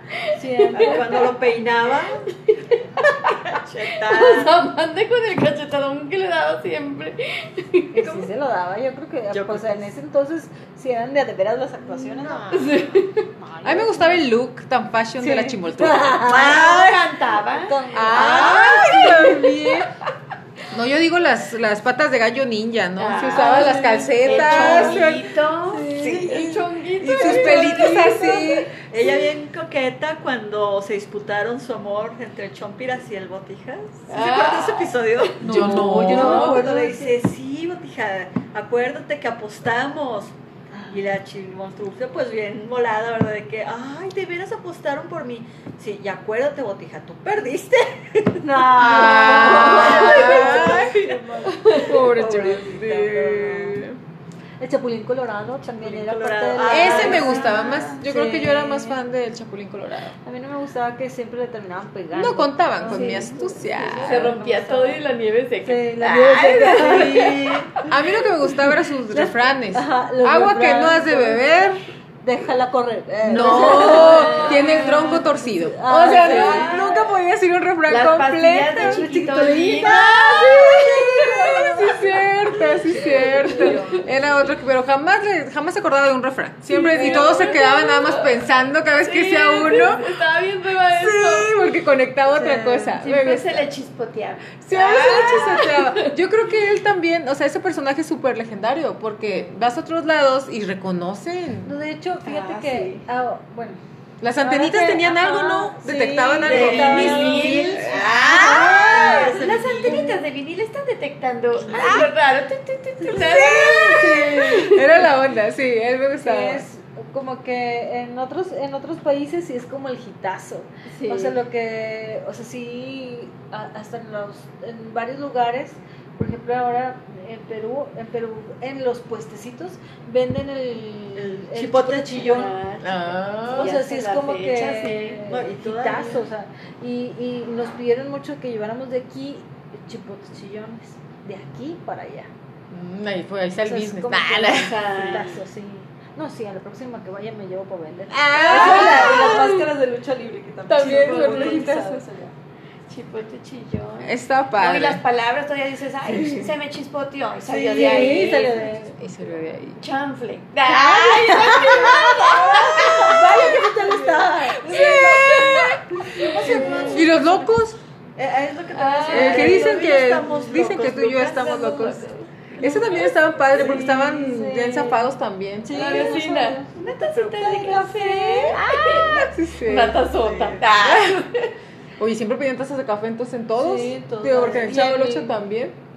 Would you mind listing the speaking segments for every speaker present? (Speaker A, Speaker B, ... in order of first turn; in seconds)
Speaker A: 0.3-1.3, 7.9-12.8, 13.4-14.3, 15.2-16.7, 17.7-18.6, 23.3-25.1, 25.7-26.4, 27.2-27.9, 35.4-37.2, 40.7-41.1, 48.4-52.0, 54.6-59.0, 60.2-65.0, 65.6-67.7, 69.1-71.6, 72.2-76.9, 78.8-81.9, 82.9-84.2, 92.3-93.0, 101.7-103.8, 104.4-110.2, 113.0-114.7, 116.2-132.5, 133.5-142.3, 143.6-152.3, 157.7-159.2, 160.7-167.2, 173.4-178.6, 183.6-185.4
Speaker B: 0.6-1.5, 2.4-3.3, 3.9-8.3, 12.5-13.3, 16.3-19.8, 23.0-28.7, 34.1-35.3, 49.1-52.1, 62.8-63.4, 63.9-67.9, 73.5-75.3, 76.0-77.0, 77.9-82.0, 82.9-84.0, 86.7-91.6, 93.0-96.2, 102.2-103.0, 106.4-115.1, 120.9-121.4, 132.2-135.2, 144.6-145.4, 148.4-149.7, 150.7-151.8, 152.9-158.6, 159.8-163.6, 164.7-165.7, 166.5-166.8, 168.7-169.8, 171.3-172.3, 175.7-181.5
Speaker C: 0.7-2.3, 3.2-4.6, 9.3-9.9, 12.0-12.9, 16.2-17.5, 18.1-18.9, 28.8-40.3, 40.9-51.0, 51.9-53.8, 55.8-57.6, 66.7-67.7, 79.8-80.7, 106.4-107.5, 108.1-110.2, 131.2-132.5, 135.2-136.3, 145.0-145.2, 157.5-158.7, 161.3-165.3, 166.0-167.5, 168.2-171.9, 172.6-173.1, 180.1-180.7
Speaker D: 13.6-16.3, 17.9-19.9, 20.7-25.3, 26.1-28.7, 35.4-36.6, 48.8-50.9, 51.7-54.0, 56.7-60.2, 62.1-64.3, 67.9-71.9, 73.2-79.0, 80.3-90.2, 90.9-93.7, 94.6-101.8, 104.2-108.7, 111.6-112.1, 113.1-116.7, 132.8-133.8, 142.7-144.9, 148.1-149.4, 150.8-152.0, 154.0-155.0, 156.1-156.5, 159.0-159.8, 164.7-165.8, 166.5-167.8, 169.1-172.1, 172.6-176.2, 178.7-180.0, 180.8-181.2, 182.0-185.8